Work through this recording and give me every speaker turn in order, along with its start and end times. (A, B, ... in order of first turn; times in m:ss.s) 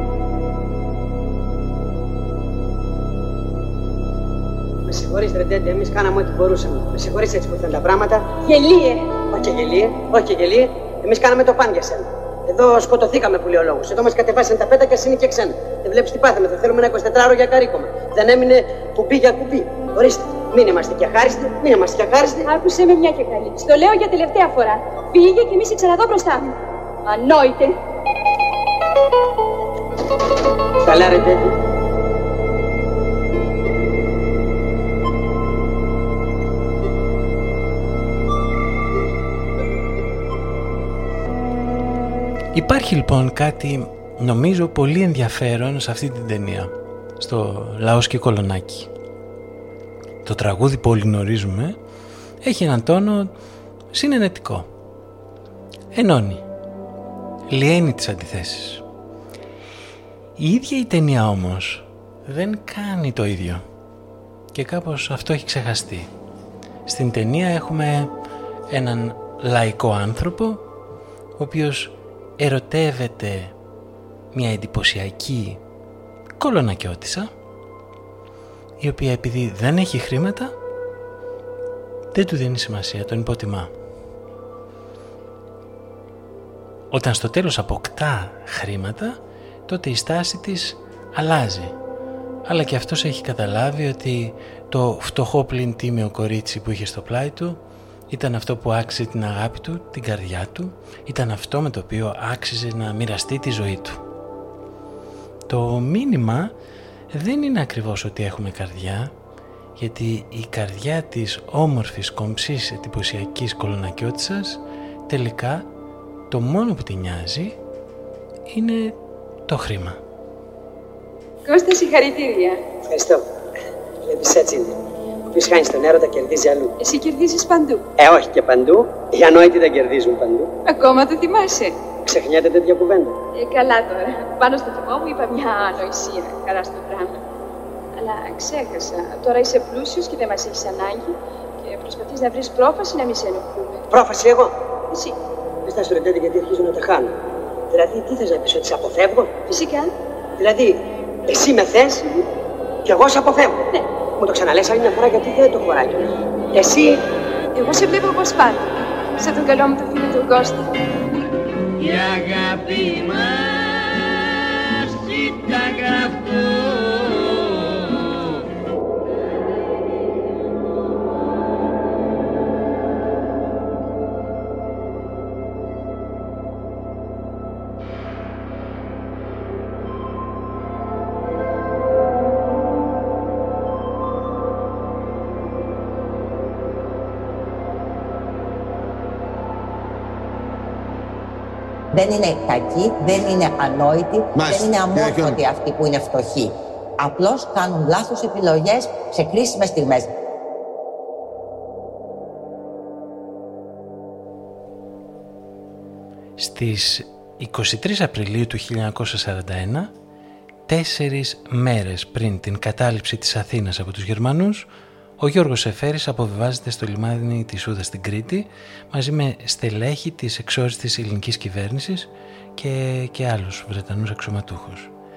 0:04.9-0:22.5 A
0:22.5-0:26.5 B
0:27.1-0:27.8 B
0:30.8-0:31.5 A
0:42.5-0:48.9 C
0:50.2-0:51.8 C
0:52.4-0:53.3 C
0:53.9-0:54.7 C
0:55.9-0:56.4 C
0:57.5-0:58.8 C
1:00.4-1:03.6 C
1:04.5-1:06.1 C
1:06.9-1:08.1 C
1:08.7-1:10.6 C
1:11.4-1:13.5 C
1:14.3-1:15.6 C
1:16.4-1:17.3 C
1:18.8-1:20.6 C
1:22.1-1:23.7 C
1:26.9-1:31.8 C
1:32.5-1:44.0 C
1:45.5-1:46.5 C
1:47.1-1:49.1 C
1:49.8-1:55.7 C
1:56.3-1:57.6 C
1:58.5-2:00.0 C
2:01.5-2:02.6 B
2:02.9-2:03.2 A
2:04.0-2:04.8 A
2:05.3-2:06.7 A
2:06.8-2:07.9 B
2:08.0-2:10.5 A
2:10.7-2:11.8 B
2:12.1-2:13.2 A
2:13.3-2:17.2 B
2:18.0-2:23.9 B
2:23.9-2:24.6 A
2:25.7-2:27.1 A
2:27.7-2:29.4 A
2:29.5-2:29.9 B
2:30.4-2:32.2 A
2:32.8-2:33.6 A
2:34.2-2:37.0 A
2:37.6-2:40.7 B
2:42.0-2:43.0 D
2:45.3-2:46.6 D
3:11.9-3:20.1 E
3:14.4-3:15.3 D
3:26.4-3:29.9 C
3:30.7-3:34.7 C
3:35.2-3:44.9 C